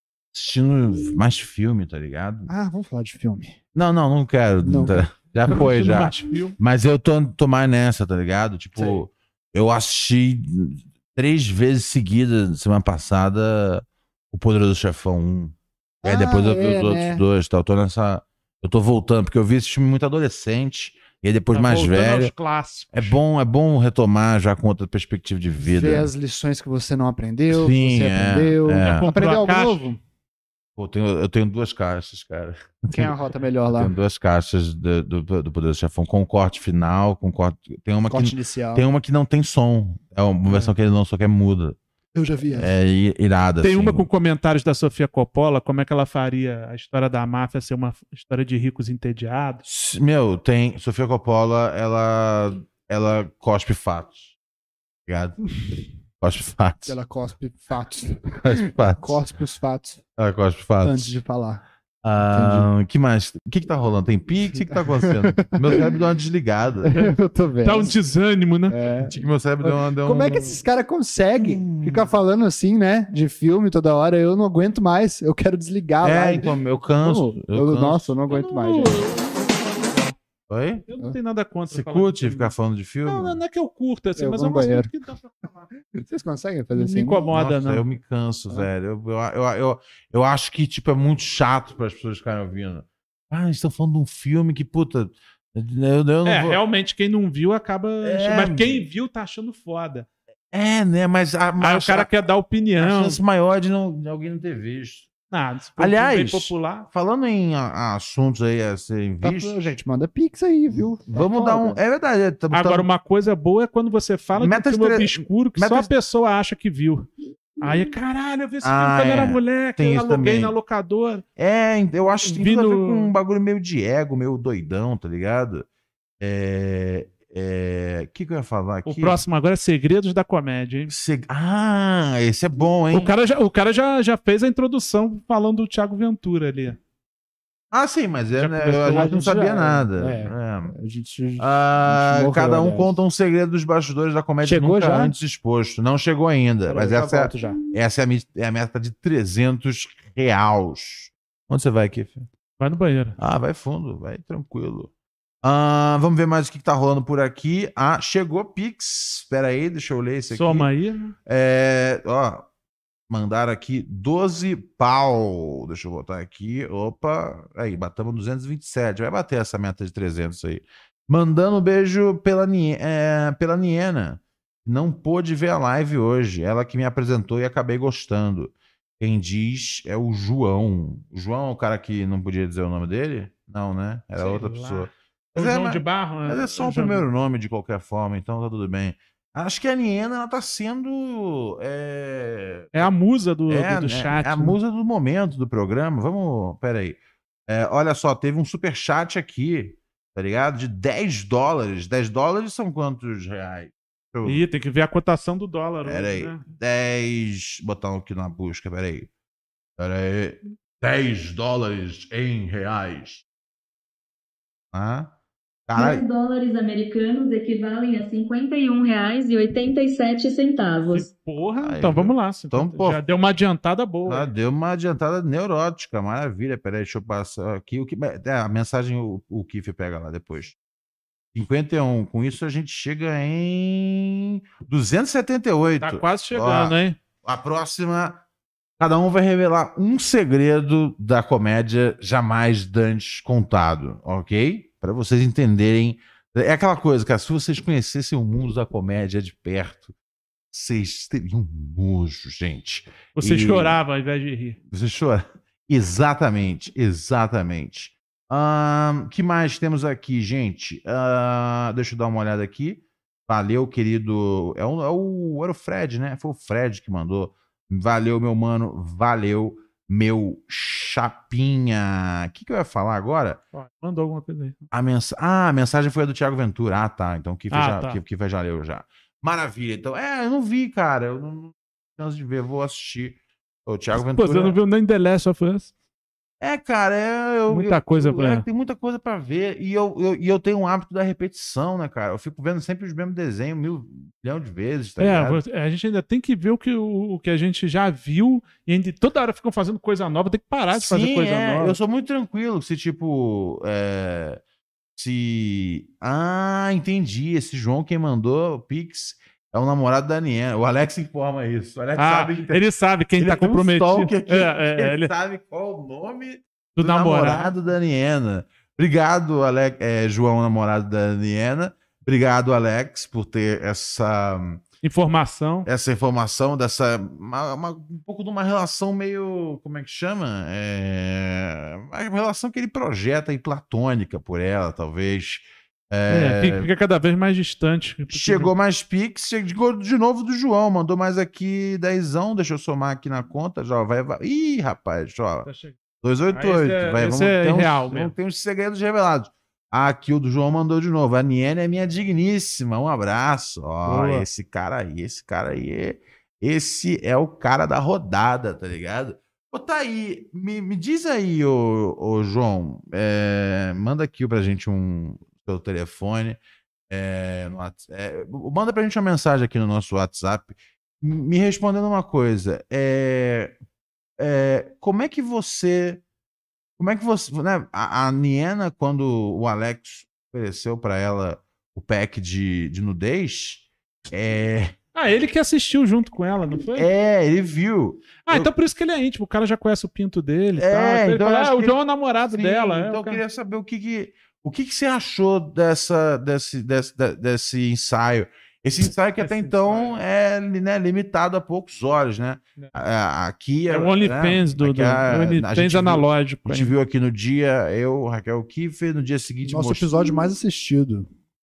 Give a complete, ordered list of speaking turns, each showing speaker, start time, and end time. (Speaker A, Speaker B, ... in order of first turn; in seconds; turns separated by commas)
Speaker A: 0.3-2.5, Speaker B: 2.5-3.6, Speaker A: 3.7-22.3, Speaker B: 4.6-5.1, Speaker C: 5.5-6.6, Speaker B: 16.0-17.2, Speaker C: 21.5-23.2, Speaker A: 22.9-26.1, Speaker B: 25.6-30.0, Speaker A: 27.5-29.1, Speaker C: 28.8-29.9, Speaker A: 30.8-33.1, Speaker B: 32.9-33.9, Speaker A: 33.7-41.8, Speaker B: 38.1-38.8, Speaker B: 42.1-42.7, Speaker A: 42.5-44.1, Speaker C: 43.6-49.6, Speaker A: 49.6-54.3, Speaker A: 55.1-55.5, Speaker A: 56.2-57.0, Speaker B: 56.8-60.0, Speaker A: 58.4-59.2, Speaker A: 60.2-61.2, Speaker B: 60.8-61.6, Speaker A: 62.0-66.9, Speaker B: 62.3-62.7, Speaker B: 64.7-66.0, Speaker B: 66.8-67.9, Speaker C: 67.6-68.8, Speaker B: 68.7-79.0, Speaker A: 69.1-70.6, Speaker A: 71.3-72.1, Speaker A: 76.0-78.2, Speaker C: 78.3-80.2, Speaker A: 80.5-80.8, Speaker C: 80.9-82.5, Speaker A: 81.7-83.4, Speaker C: 83.0-85.5, Speaker B: 84.2-84.9, Speaker B: 85.9-87.3, Speaker C: 86.7-87.8, Speaker A: 87.3-96.6, Speaker C: 96.2-100.1, Speaker A: 98.0-98.8, Speaker A: 100.5-102.1, Speaker C: 101.6-103.2, Speaker A: 102.8-105.1, Speaker C: 105.3-106.9, Speaker A: 105.8-109.7, Speaker B: 109.2-111.8, Speaker A: 111.0-112.9, Speaker C: 112.5-117.1, Speaker A: 114.3-115.9, Speaker C: 117.6-121.2, Speaker A: 118.6-120.5, Speaker A: 121.4-125.7, Speaker C: 122.2-123.1, Speaker A: 126.2-129.2, Speaker C: 128.8-130.9, Speaker A: 130.9-133.1, Speaker C: 132.9-136.8, Speaker A: 137.7-140.7, Speaker C: 138.3-139.4, Speaker B: 138.8-142.9, Speaker A: 141.4-152.3, Speaker B: 144.4-145.1, Speaker B: 146.7-147.6, Speaker C: 152.6-153.2, Speaker A: 153.2-154.9, Speaker A: 155.4-160.7, Speaker C: 160.3-161.1, Speaker A: 161.2-162.5, Speaker A: 163.1-192.9, Speaker C: 184.1-187.1, Speaker C: 192.7-194.6, Speaker A: 193.5-204.4, Speaker C: 204.2-206.4, Speaker A: 205.8-209.1, Speaker A: 209.8-213.2, Speaker A: 214.7-215.1, Speaker A: 215.7-216.0, Speaker D: 215.8-221.1, Speaker C: 220.9-224.3, Speaker A: 221.6-223.0, Speaker A: 224.1-230.5, Speaker A: 231.3-238.2, Speaker C: 235.8-237.0, Speaker A: 238.8-249.9, Speaker A: 250.5-253.8, Speaker C: 253.2-254.6, Speaker A: 254.7-273.4, Speaker C: 273.5-274.6, Speaker A: 274.7-284.6, Speaker C: 277.5-278.0, Speaker C: 283.9-285.7, Speaker A: 286.4-295.4, Speaker C: 287.5-288.4, Speaker C: 295.0-301.8, Speaker A: 300.7-304.4, Speaker A: 304.9-312.6, Speaker C: 312.0-315.1, Speaker A: 313.2-324.6, Speaker C: 316.8-317.5, Speaker C: 324.8-325.7, Speaker A: 325.6-336.7, Speaker C: 336.1-338.5, Speaker A: 338.1-345.5, Speaker C: 345.4-345.8, Speaker A: 346.0-366.4, Speaker C: 346.3-348.1, Speaker C: 353.9-354.3, Speaker A: 366.9-373.5, Speaker A: 374.2-376.0, Speaker A: 376.8-384.7, Speaker C: 384.9-386.9, Speaker A: 386.8-388.5, Speaker C: 388.2-393.2, Speaker A: 390.6-409.9, Speaker C: 399.2-400.0, Speaker C: 403.7-406.7, Speaker B: 409.4-411.1